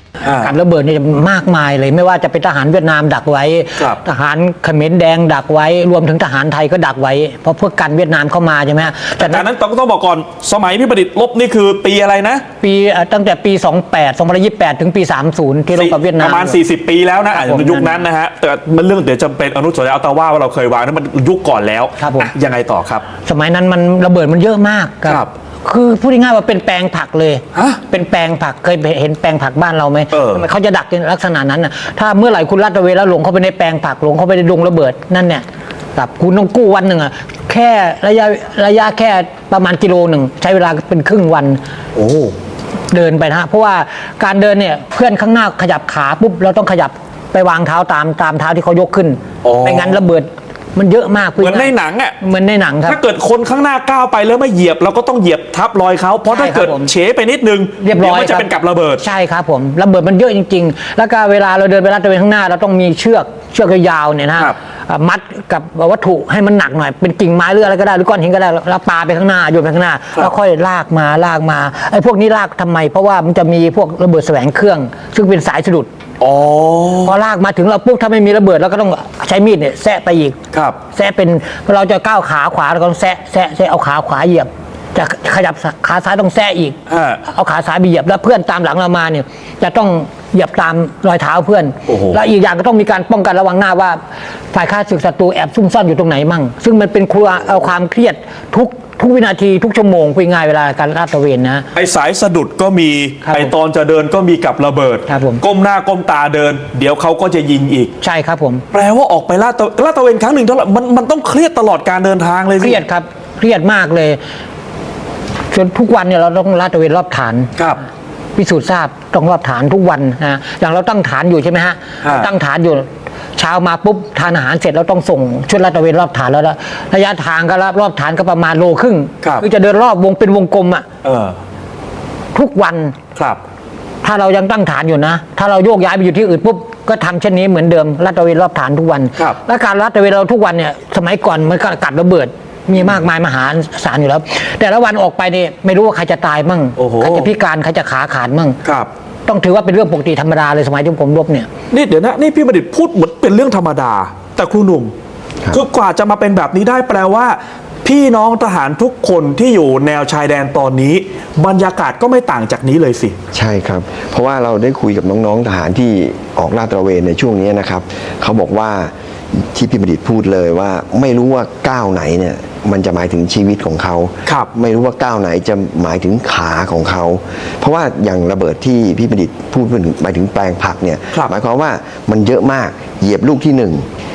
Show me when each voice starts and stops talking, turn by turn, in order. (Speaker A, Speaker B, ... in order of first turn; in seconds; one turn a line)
Speaker A: 0.2-0.5
Speaker B: 0.4-9.5
Speaker A: 9.2-12.4
Speaker B: 12.6-16.6
Speaker A: 15.7-23.1
Speaker B: 17.3-18.0
Speaker B: 22.0-22.3
Speaker B: 23.2-35.4
Speaker A: 27.5-27.8
Speaker A: 30.1-30.5
Speaker B: 36.0-41.6
Speaker A: 42.0-42.3
Speaker B: 42.9-53.0
Speaker A: 49.4-50.0
Speaker A: 51.4-52.2
Speaker A: 52.9-59.0
Speaker B: 56.3-56.9
Speaker B: 57.8-75.9
Speaker A: 76.2-77.1
Speaker B: 77.0-80.4
Speaker A: 80.5-80.8
Speaker B: 80.9-94.0
Speaker A: 86.9-87.2
Speaker A: 91.9-92.2
Speaker B: 94.5-101.7
Speaker A: 101.7-107.9
Speaker B: 103.2-103.5
Speaker B: 105.1-105.4
Speaker B: 108.0-108.6
Speaker A: 108.7-112.8
Speaker B: 112.6-114.2
Speaker B: 115.5-117.5
Speaker B: 118.4-130.8
Speaker A: 122.0-122.3
Speaker A: 131.0-131.4
Speaker B: 132.3-133.0
Speaker B: 134.0-148.6
Speaker A: 146.8-147.3
Speaker A: 148.6-148.9
Speaker B: 149.3-151.5
Speaker A: 151.7-154.9
Speaker A: 155.5-163.2
Speaker C: 163.3-183.9